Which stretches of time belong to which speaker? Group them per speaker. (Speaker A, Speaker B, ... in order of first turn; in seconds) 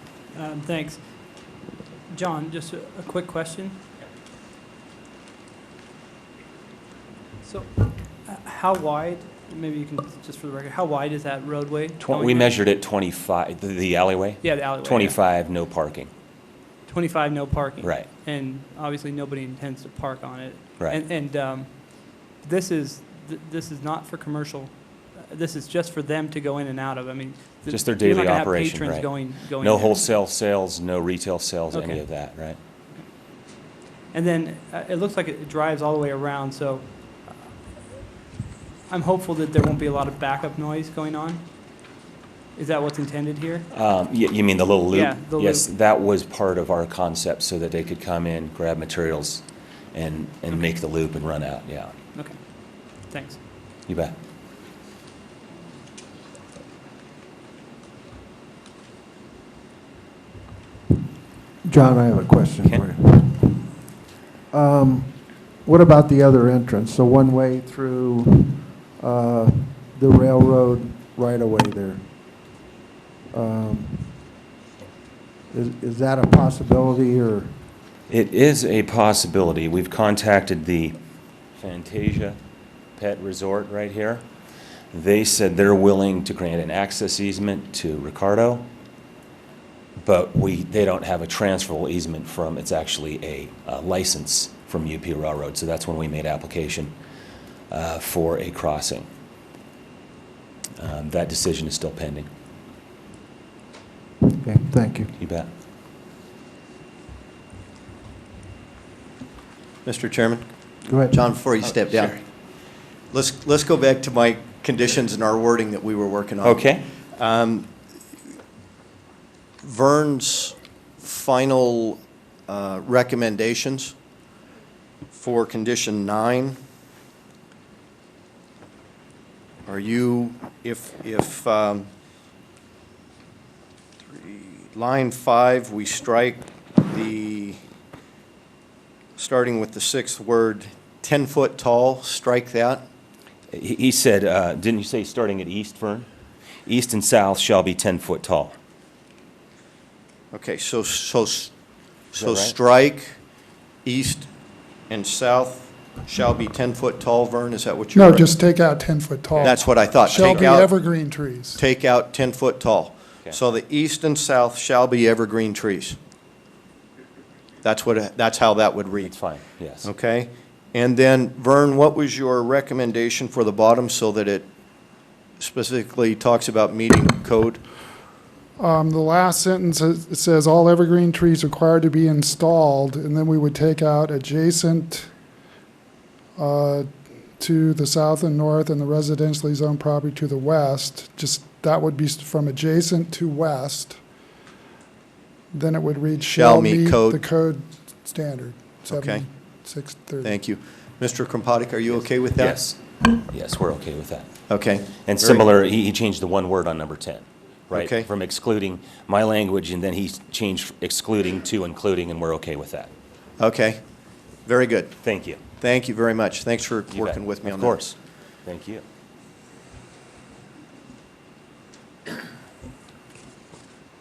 Speaker A: 0.3-1.5, 2.1-3.8, 7.4-12.6, 14.4-15.2, 16.9-30.2, 31.7-32.4, 34.1-37.5, 38.9-41.8, 42.5-43.7, 44.9-45.7, 52.1-53.4
Speaker B: 12.0-16.1, 27.7-32.6, 43.7-51.9, 53.9-54.1, 78.1-81.0, 81.5-82.4, 83.0-84.2, 84.9-88.7, 90.0-96.9, 97.7-99.1, 100.8-102.3, 105.2-105.5, 116.4-116.9, 143.5-146.1, 146.7-148.6, 152.2-152.6, 159.4-160.5, 169.0-169.9, 201.9-204.3, 205.0-212.9, 215.0-215.4, 216.9-218.8
Speaker C: 61.6-63.8, 64.5-72.0, 73.3-74.2, 75.5-77.6, 104.2-105.1, 110.9-111.3
Speaker D: 109.8-110.5, 111.1-112.2, 113.1-117.7, 119.6-123.9, 125.1-126.6, 129.7-131.9, 134.1-137.6, 139.2-142.8, 150.3-151.5, 152.1-153.2, 153.8-154.3, 154.9-158.3, 159.4-160.7, 161.6-166.0, 167.6-169.2, 169.8-174.5, 175.4-177.6, 196.3-197.2, 198.8-199.2, 200.2-202.6, 204.5-205.5, 207.7-208.1, 213.4-213.8, 214.4-215.0, 215.6-217.9
Speaker E: 157.9-161.6, 178.6-185.1, 186.4-194.0, 195.5-200.4